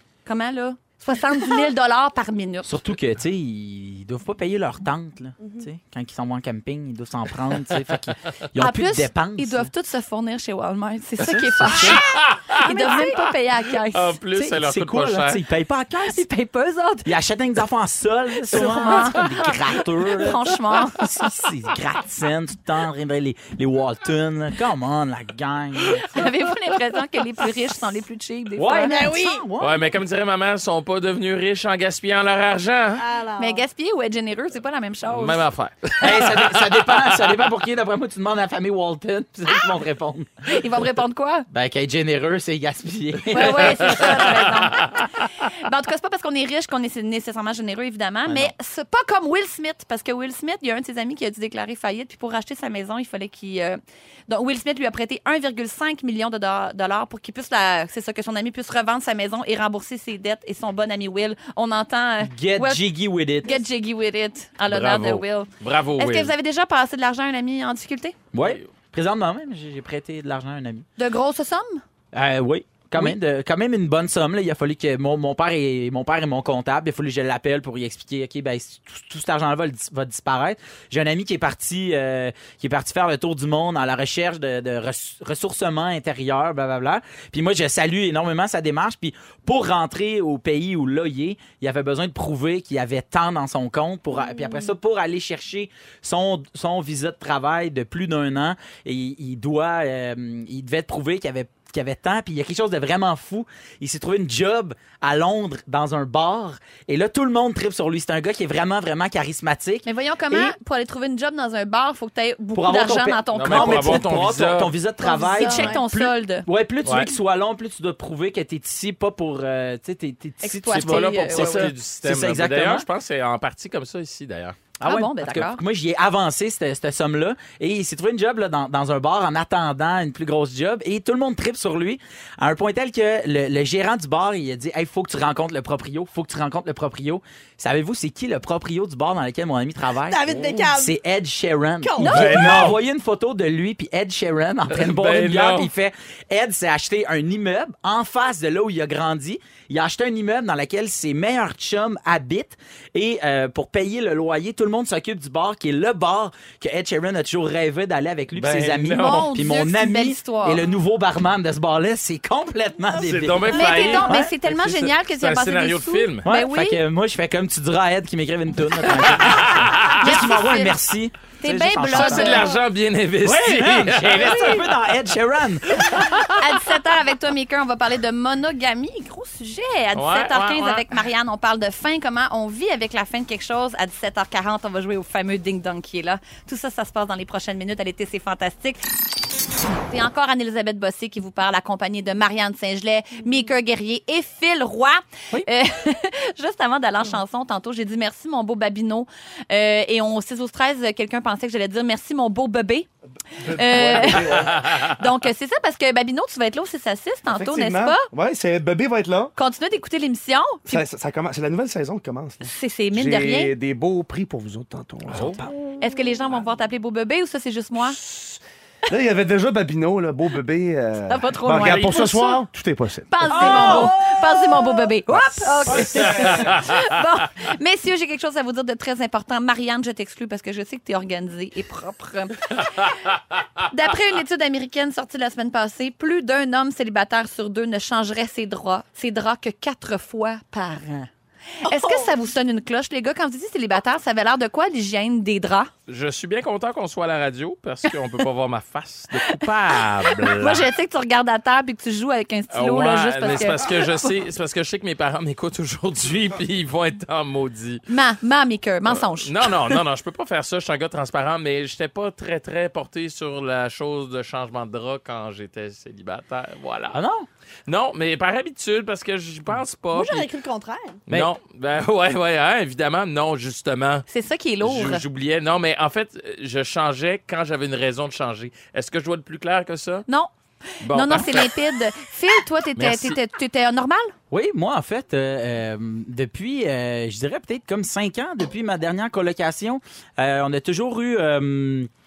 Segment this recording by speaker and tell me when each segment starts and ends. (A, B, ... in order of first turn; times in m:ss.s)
0:00.2-0:02.8 A
0:02.6-0:09.7 B
0:08.6-0:14.2 A
0:11.6-0:13.1 C
0:11.6-0:12.0 B
0:13.9-0:15.4 C
0:14.3-0:16.2 B
0:16.0-0:17.1 A
0:17.0-0:26.3 B
0:18.4-0:21.1 A
0:25.8-0:29.1 A
0:28.6-0:29.9 B
0:28.8-0:29.4 D
0:29.6-0:33.0 C
0:33.0-0:33.6 D
0:33.4-0:35.4 A
0:35.0-0:37.2 C
0:36.0-0:40.5 B
0:40.5-0:41.5 A
0:41.5-0:44.7 B
0:43.3-1:02.8 A
0:43.5-0:45.0 C
0:48.2-0:48.5 B
1:02.2-1:03.6 B
1:03.4-1:08.2 A
1:04.7-1:06.3 C
1:08.3-1:10.8 B
1:08.4-1:08.6 C
1:11.0-1:11.8 A
1:12.1-1:50.6 B
1:34.1-1:34.7 D
1:49.8-1:54.1 A
1:52.5-2:02.8 B
1:53.3-1:54.7 C
1:55.0-1:56.4 A
1:55.0-1:55.8 D
1:56.8-1:57.1 C
2:00.4-2:01.7 A
2:00.7-2:04.6 C
2:04.8-2:44.3 B
2:04.8-2:05.6 A
2:20.1-2:21.0 D
2:21.8-2:22.6 D
2:22.0-2:22.7 A
2:22.0-2:22.8 C
2:24.7-2:25.7 C
2:38.3-2:39.3 C
2:38.9-2:40.6 A
2:42.9-2:44.1 D
2:43.0-2:46.3 C
2:43.5-2:46.8 A
2:46.2-2:52.5 B
2:49.0-2:50.0 C
2:49.5-2:50.8 A
2:51.4-2:52.5 A
2:51.9-2:54.8 C
2:53.2-2:56.0 B
2:54.2-2:54.6 D
2:55.8-2:56.3 C
2:56.4-3:08.8 A
2:59.9-3:00.9 C
3:09.9-3:22.9 A
3:23.4-3:24.6 E
3:23.4-3:28.1 A
3:27.3-3:29.3 E
3:29.4-3:30.8 A
3:30.7-3:35.5 E
3:32.4-3:33.5 A
3:35.1-3:35.5 B
3:35.8-3:38.0 A
3:38.0-3:38.4 E
3:38.9-3:43.8 E
3:41.1-3:42.4 A
3:43.1-3:52.7 A
3:43.3-3:44.1 B
3:43.4-3:44.9 D
3:45.1-3:45.9 B
3:45.7-3:46.5 E
3:45.9-3:46.8 C
3:53.6-4:01.1 A
4:01.6-4:05.7 A
4:01.6-4:02.1 D
4:05.9-4:10.7 C
4:10.1-4:14.1 A
4:12.5-4:17.8 C
4:17.9-4:19.8 A
4:18.8-4:27.0 C
4:26.9-4:27.3 B
4:27.7-4:30.3 C
4:29.9-4:31.0 D
4:31.1-4:34.1 C
4:34.1-4:35.0 A
4:34.6-4:40.0 C
4:40.8-4:41.6 C
4:40.8-4:44.1 A
4:42.8-4:43.2 C
4:44.3-4:51.9 B